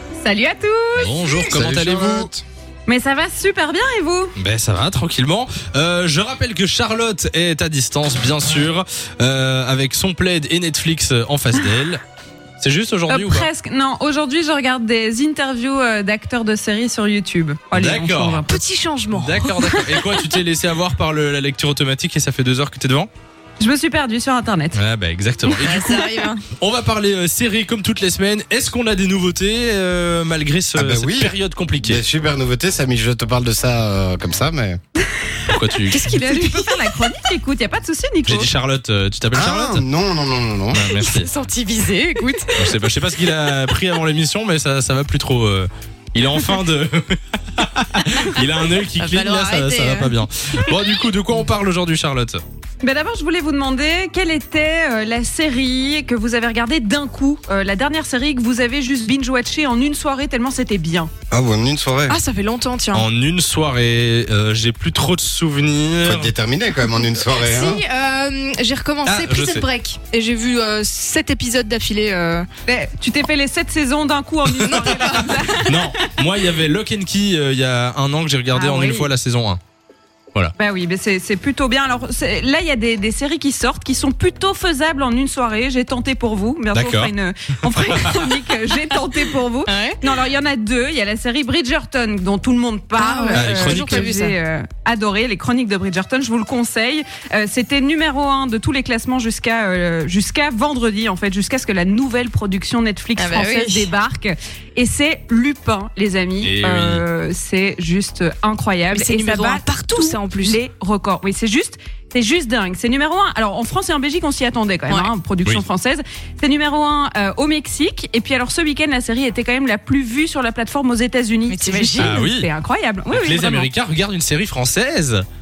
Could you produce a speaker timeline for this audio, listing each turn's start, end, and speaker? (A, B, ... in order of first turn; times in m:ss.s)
0:00.2-0:01.5 A
0:01.0-0:02.3 B
0:01.5-0:02.4 C
0:02.9-0:04.3 A
0:04.4-0:12.0 B
0:12.6-0:13.5 B
0:13.1-0:18.6 A
0:17.7-0:18.4 B
0:18.5-0:19.7 D
0:19.1-0:23.1 B
0:19.6-0:20.3 A
0:23.6-0:24.8 A
0:24.7-0:32.0 B
0:25.4-0:26.4 D
0:30.7-0:34.8 C
0:35.2-0:38.5 A
0:35.5-0:36.1 B
0:35.9-0:36.8 D
0:38.2-0:39.8 B
0:39.3-0:40.8 C
0:40.7-0:41.3 B
0:40.9-0:42.8 D
0:42.5-0:52.4 B
0:49.0-0:50.2 D
0:52.8-1:01.1 A
1:01.3-1:02.2 C
1:02.1-1:03.1 D
1:02.9-1:06.3 B
1:06.0-1:07.8 C
1:07.1-1:12.5 D
1:09.0-1:09.7 B
1:12.7-1:15.9 A
1:14.6-1:19.6 B
1:18.5-1:19.1 A
1:20.6-2:03.7 A
1:26.7-1:27.1 B
1:27.7-1:28.2 B
1:29.7-1:30.0 D
1:33.0-1:34.3 D
1:33.3-1:34.1 B
1:43.2-1:43.9 D
1:46.4-1:47.0 B
1:48.9-1:50.6 D
2:01.5-2:02.2 D
2:02.0-2:02.5 B
2:03.1-2:05.2 B